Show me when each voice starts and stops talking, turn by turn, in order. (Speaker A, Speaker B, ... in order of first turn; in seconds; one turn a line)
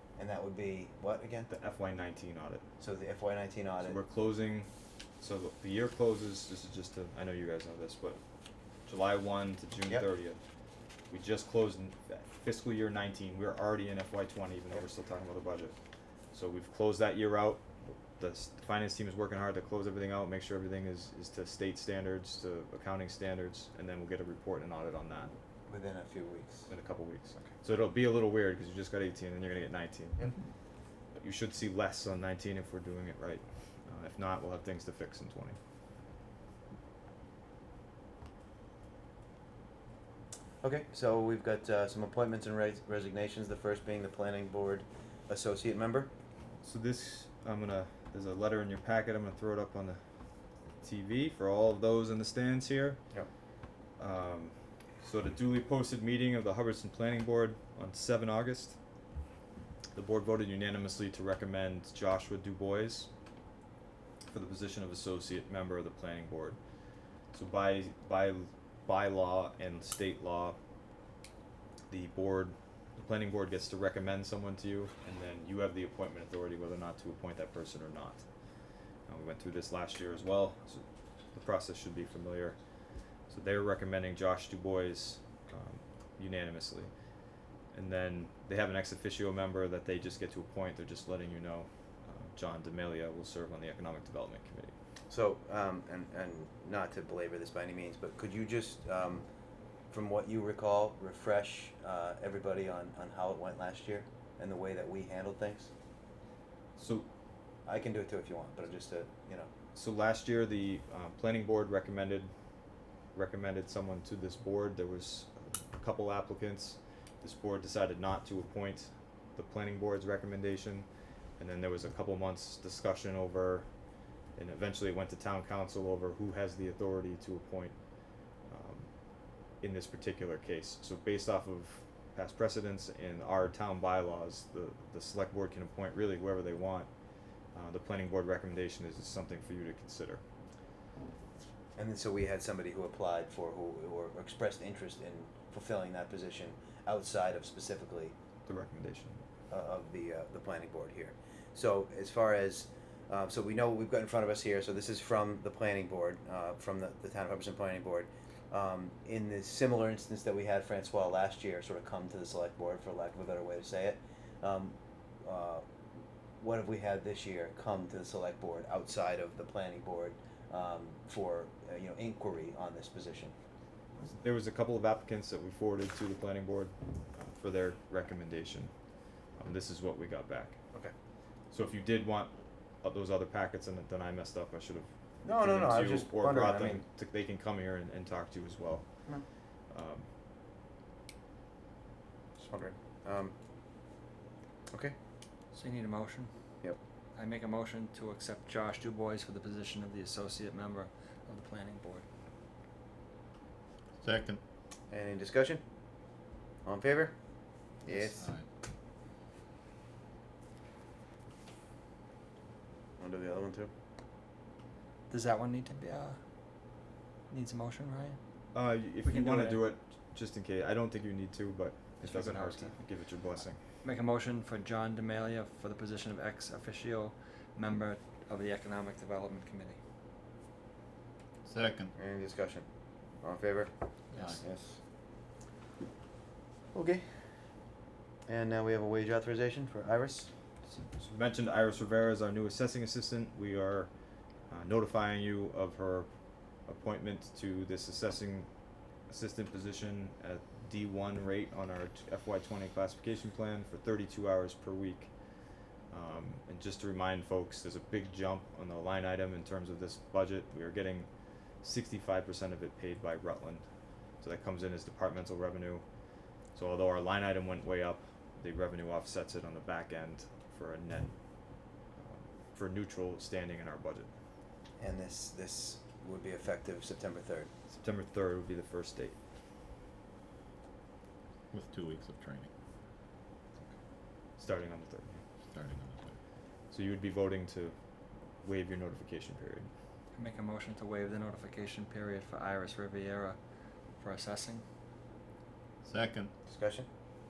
Speaker A: 0.2-1.5
Speaker B: 1.5-2.6
Speaker A: 2.8-4.0
Speaker B: 3.8-8.2
Speaker B: 8.8-10.4
Speaker B: 11.1-15.7
Speaker B: 16.3-25.3
Speaker A: 25.7-26.7
Speaker B: 26.7-30.3
Speaker B: 31.1-35.6
Speaker A: 40.6-46.1
Speaker B: 46.6-50.0
Speaker B: 50.8-53.0
Speaker B: 54.0-58.8
Speaker B: 59.9-63.1
Speaker B: 64.3-66.6
Speaker B: 67.3-70.6
Speaker B: 71.9-78.2
Speaker B: 79.1-82.6
Speaker B: 83.3-86.9
Speaker B: 87.7-94.7
Speaker A: 95.1-99.2
Speaker A: 99.9-105.7
Speaker B: 106.8-107.1
Speaker A: 107.7-109.5
Speaker B: 109.7-112.3
Speaker B: 113.1-120.9
Speaker B: 121.4-123.7
Speaker B: 124.3-127.8
Speaker B: 128.5-128.9
Speaker B: 129.6-136.9
Speaker B: 137.5-140.2
Speaker A: 141.8-148.1
Speaker B: 148.4-149.2
Speaker A: 149.5-165.6
Speaker A: 166.4-173.3
Speaker B: 174.1-178.7
Speaker B: 179.4-180.6
Speaker B: 181.5-188.9
Speaker A: 185.2-186.8
Speaker B: 189.7-190.1
Speaker A: 192.4-193.3
Speaker C: 195.5-196.3
Speaker C: 197.1-202.0
Speaker D: 204.0-204.4
Speaker A: 204.9-205.6
Speaker A: 206.6-207.1
Speaker A: 207.8-208.3
Speaker D: 208.1-208.4
Speaker A: 213.0-213.7
Speaker C: 215.1-216.2
Speaker C: 217.3-218.2
Speaker B: 218.5-223.6
Speaker C: 219.0-219.7
Speaker C: 222.0-222.8
Speaker C: 223.8-229.8
Speaker D: 231.4-231.9
Speaker A: 231.9-232.6
Speaker A: 233.2-233.7
Speaker C: 234.1-234.4
Speaker D: 234.2-234.8
Speaker A: 236.7-237.0
Speaker A: 238.3-240.3
Speaker B: 240.8-243.9
Speaker B: 244.5-246.1
Speaker B: 246.7-248.5
Speaker B: 249.1-255.1
Speaker B: 255.9-261.1
Speaker B: 261.6-263.6
Speaker B: 264.2-265.8
Speaker B: 266.5-271.1
Speaker B: 272.0-274.1
Speaker A: 274.8-277.5
Speaker B: 277.7-279.2
Speaker D: 281.5-282.5
Speaker B: 284.4-285.2
Speaker D: 285.5-286.1
Speaker B: 286.7-287.7
Speaker B: 288.4-289.7
Speaker C: 290.1-293.4
Speaker C: 293.9-294.6
Speaker D: 295.8-296.3
Speaker A: 296.5-296.9